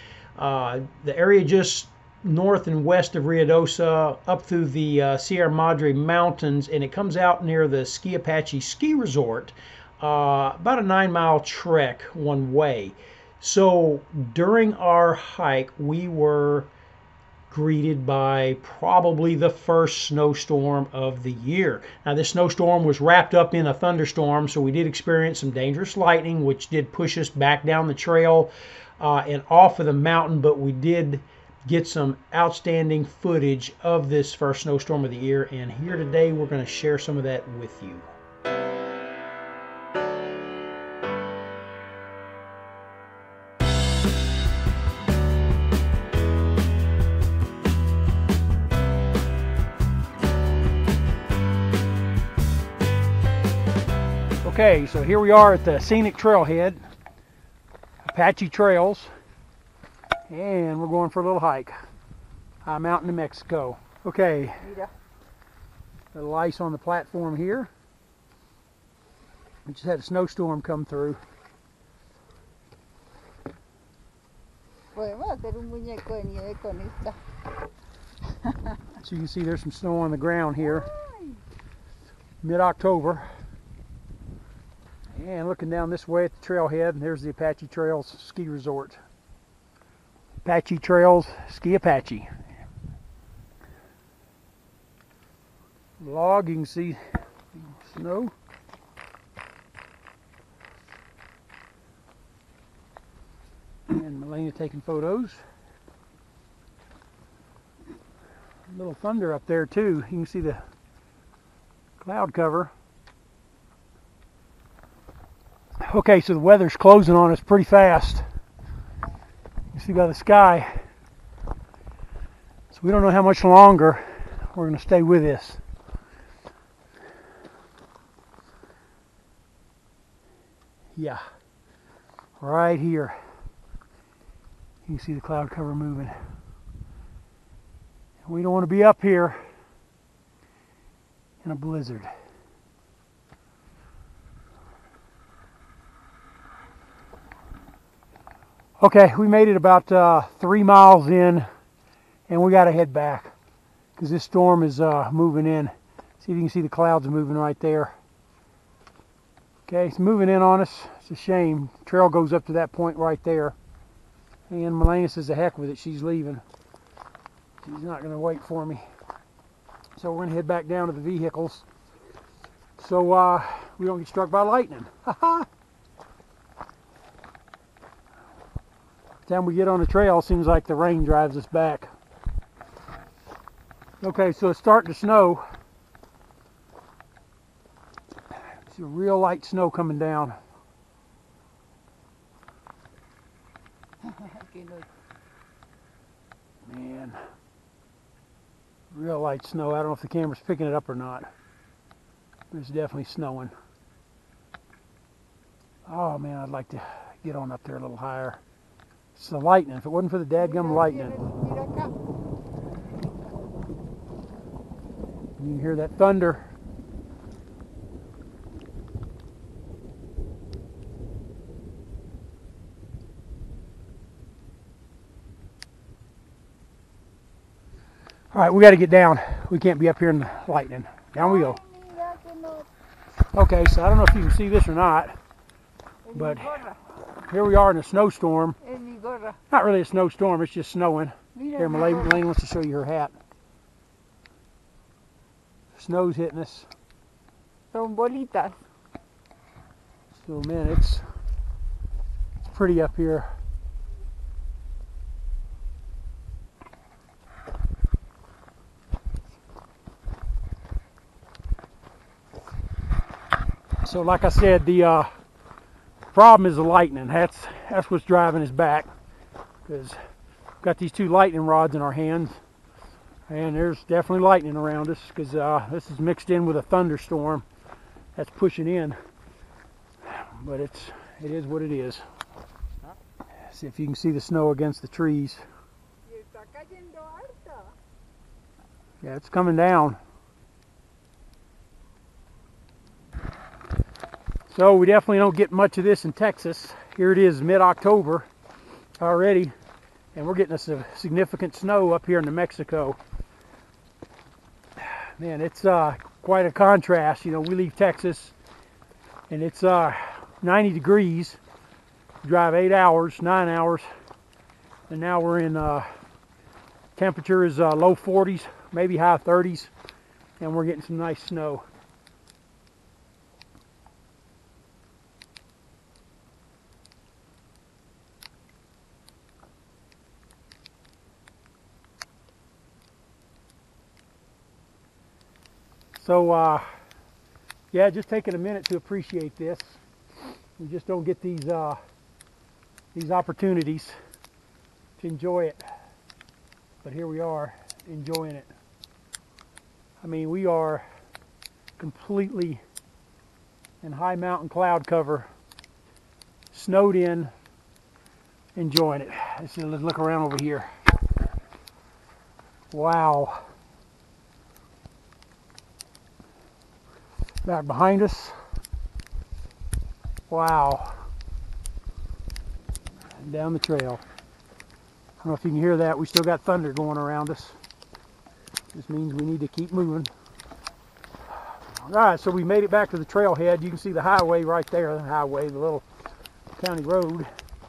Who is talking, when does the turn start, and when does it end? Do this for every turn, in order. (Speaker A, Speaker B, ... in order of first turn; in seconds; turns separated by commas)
Speaker A: 0.3-16.7, Speaker A: 17.5-38.1, Speaker A: 54.4-56.8, Speaker A: 58.0-59.1, Speaker A: 60.3-61.8, Speaker A: 62.6-64.7, Speaker B: 64.6-64.9, Speaker A: 66.1-67.7, Speaker A: 69.7-71.2, Speaker B: 74.9-77.2, Speaker A: 78.9-80.9, Speaker B: 80.9-81.4, Speaker A: 82.4-83.3, Speaker A: 85.1-89.0, Speaker A: 90.4-92.3, Speaker A: 96.0-97.0, Speaker A: 97.5-98.3, Speaker A: 103.9-105.4, Speaker A: 108.7-110.6, Speaker A: 112.0-112.7, Speaker A: 115.8-118.2, Speaker A: 119.7-120.7, Speaker A: 122.7-125.6, Speaker A: 130.9-131.2, Speaker A: 132.4-133.2, Speaker A: 134.8-136.1, Speaker A: 138.2-139.4, Speaker A: 141.4-142.1, Speaker A: 148.8-151.4, Speaker A: 152.3-153.3, Speaker A: 153.9-157.9, Speaker A: 159.7-163.6, Speaker A: 164.5-166.4, Speaker A: 167.6-168.8, Speaker A: 169.9-171.7, Speaker A: 172.8-175.5, Speaker A: 179.2-181.9, Speaker A: 184.0-185.4, Speaker A: 188.7-190.4, Speaker B: 194.1-194.8, Speaker A: 196.7-197.2, Speaker A: 198.9-201.3, Speaker A: 202.5-203.5, Speaker A: 205.8-208.4, Speaker A: 209.1-211.2, Speaker B: 210.4-211.9, Speaker A: 215.4-216.5, Speaker A: 228.3-231.6, Speaker B: 231.2-232.7, Speaker A: 233.3-235.2, Speaker B: 236.1-236.8, Speaker A: 236.1-238.6, Speaker B: 238.6-239.4, Speaker A: 239.5-243.2, Speaker B: 241.3-242.2, Speaker A: 245.7-246.7, Speaker B: 247.7-248.6, Speaker A: 250.1-251.0, Speaker A: 252.5-253.3, Speaker A: 263.8-265.1, Speaker A: 266.1-268.9, Speaker A: 269.6-270.0, Speaker A: 270.6-272.4, Speaker A: 273.3-277.4, Speaker A: 278.1-279.0, Speaker A: 280.0-282.0, Speaker A: 283.4-285.4, Speaker B: 286.1-287.7, Speaker A: 289.0-290.0, Speaker A: 294.5-298.3, Speaker A: 299.0-299.5, Speaker A: 300.1-303.0, Speaker A: 304.8-308.3, Speaker A: 309.3-311.4, Speaker A: 312.2-313.9, Speaker A: 314.9-315.9, Speaker A: 316.9-319.7, Speaker A: 320.4-321.6, Speaker A: 335.9-336.6, Speaker A: 337.7-339.8, Speaker A: 340.6-341.8, Speaker A: 342.9-344.0, Speaker A: 345.0-345.6, Speaker A: 346.8-348.5, Speaker A: 350.0-350.8, Speaker A: 351.8-352.6, Speaker A: 353.8-355.3, Speaker A: 356.5-357.3, Speaker A: 358.6-360.7, Speaker A: 362.7-363.4, Speaker A: 367.4-368.4, Speaker A: 370.3-371.0, Speaker A: 373.1-374.0, Speaker A: 375.2-377.6, Speaker A: 378.7-380.1, Speaker A: 381.4-385.9, Speaker A: 386.5-387.3